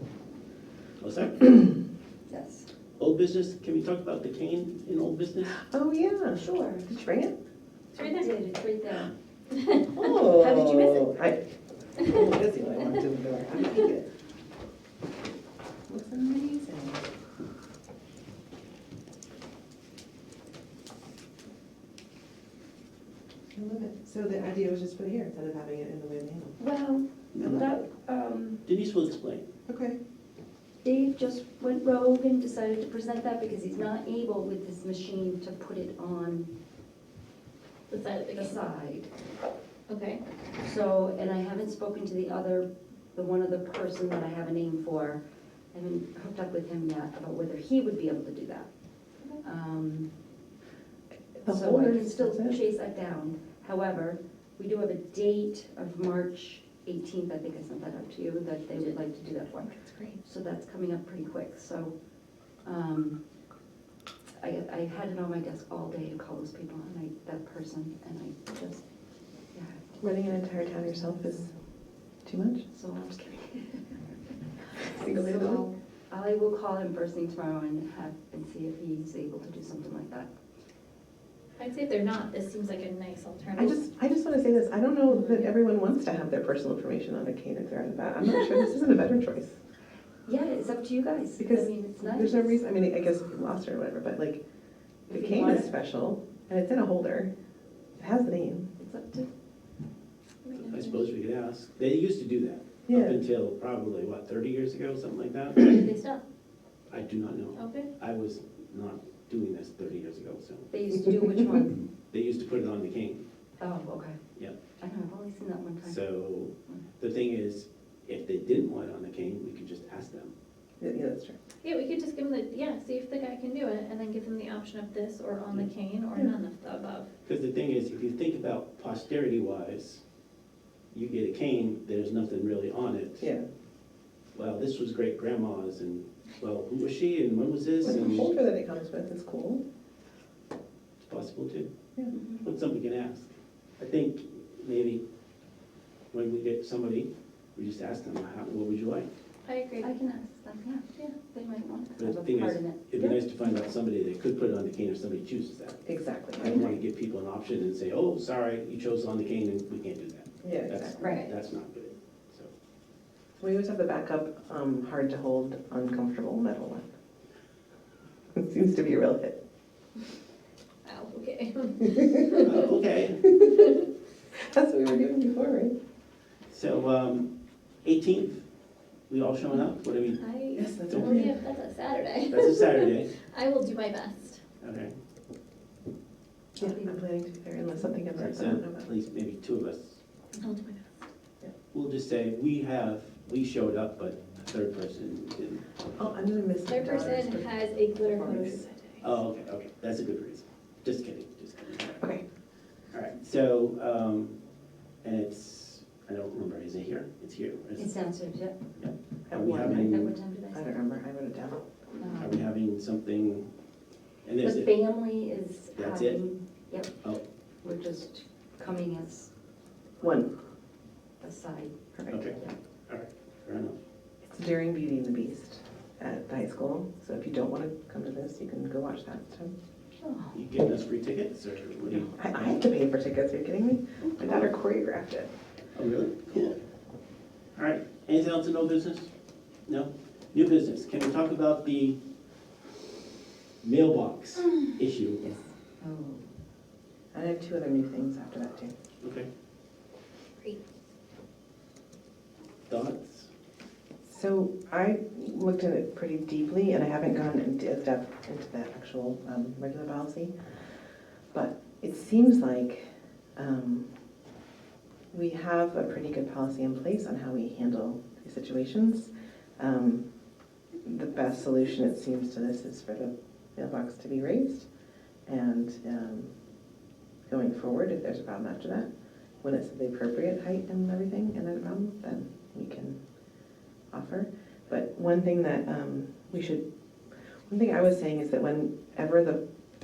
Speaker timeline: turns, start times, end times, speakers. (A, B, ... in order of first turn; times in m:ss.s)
0:01.0-0:01.6 A
0:02.3-0:02.7 B
0:03.0-0:05.6 A
0:05.6-0:07.4 C
0:06.4-0:06.8 B
0:07.9-0:08.4 D
0:08.0-0:09.1 B
0:09.5-0:11.1 D
0:09.9-0:11.4 C
0:12.0-0:14.1 C
0:15.9-0:17.0 C
0:23.5-0:26.6 C
0:26.6-0:28.6 B
0:27.4-0:27.6 A
0:27.4-0:27.6 C
0:28.6-0:29.5 A
0:29.7-0:30.0 C
0:30.8-0:36.5 B
0:37.9-0:38.6 D
0:38.3-0:39.1 B
0:39.9-0:40.2 D
0:40.6-0:45.2 B
0:45.7-0:48.7 B
0:49.4-0:50.1 B
0:51.4-0:52.6 C
0:51.4-1:01.9 B
0:59.6-1:00.2 C
1:02.6-1:03.2 B
1:04.4-1:08.8 B
1:09.5-1:09.8 B
1:10.0-1:11.5 C
1:12.2-1:12.7 C
1:12.7-1:14.0 B
1:14.7-1:20.3 B
1:14.8-1:15.6 C
1:21.6-1:23.8 D
1:23.5-1:29.6 C
1:30.2-1:32.6 B
1:31.4-1:34.4 C
1:35.1-1:35.7 B
1:35.1-1:37.3 C
1:38.0-1:38.7 C
1:38.8-1:39.3 B
1:40.4-1:41.0 D
1:40.5-1:45.8 A
1:42.9-1:43.2 C
1:45.6-1:46.2 D
1:46.9-1:50.7 A
1:47.5-1:47.9 D
1:50.7-1:51.8 B
1:52.1-1:53.2 A
1:53.6-1:54.2 B
1:54.8-1:56.0 B
1:55.8-2:00.3 A
2:00.8-2:01.4 C
2:01.6-2:07.1 D
2:07.2-2:10.0 A
2:10.9-2:13.3 A
2:13.2-2:13.4 C
2:14.3-2:18.3 A
2:17.8-2:19.6 C
2:21.0-2:21.7 A
2:22.1-2:22.4 B
2:22.4-2:25.0 A
2:26.1-2:29.1 A
2:29.4-2:29.9 D
2:29.8-2:33.2 B
2:32.0-2:35.8 A
2:35.8-2:36.7 C
2:36.4-2:42.5 A
2:40.4-2:41.2 C
2:41.0-2:41.3 B
2:43.4-2:46.9 C
2:48.3-2:49.4 C
2:50.8-2:52.6 D
2:52.4-2:53.2 A
2:53.2-2:53.7 C
2:54.3-2:55.7 C
2:56.5-2:57.3 A
2:57.8-2:58.4 A
2:59.1-3:00.2 A
3:00.2-3:04.4 D
3:00.5-3:01.4 C
3:00.9-3:01.2 A
3:02.3-3:03.1 A
3:04.6-3:04.9 A
3:06.6-3:07.0 B
3:06.6-3:08.8 C
3:08.2-3:10.0 A
3:10.4-3:11.0 D
3:11.7-3:16.1 A
3:16.0-3:18.6 C
3:16.7-3:19.1 D
3:19.0-3:22.0 A
3:22.0-3:22.2 C
3:22.9-3:24.4 A
3:25.0-3:27.9 A
3:27.8-3:28.6 B
3:28.8-3:30.1 A
3:29.3-3:31.7 C
3:29.7-3:30.7 B
3:32.0-3:32.4 B
3:32.2-3:33.5 A
3:34.2-3:34.7 A
3:34.4-3:36.9 B
3:35.8-3:36.2 A
3:37.6-3:39.3 B
3:40.0-3:40.3 C
3:41.2-3:41.7 B
3:41.9-3:42.3 C
3:42.1-3:42.4 A
3:42.9-3:43.8 A
3:44.2-3:49.5 C
3:50.0-3:50.3 B
3:50.3-3:52.6 A
3:51.9-3:55.3 C
3:55.7-3:56.6 A
3:57.6-3:59.1 A
3:59.7-4:02.0 A
4:03.6-4:05.3 A
4:05.2-4:06.2 B
4:07.1-4:08.7 C
4:09.0-4:09.3 A
4:12.7-4:13.3 A
4:14.0-4:20.3 C
4:21.3-4:23.9 C
4:25.1-4:30.1 C
4:30.8-4:34.7 C
4:35.2-4:36.3 C
4:37.3-4:38.9 C
4:39.4-4:43.0 C
4:43.9-4:46.6 C
4:47.5-4:49.4 C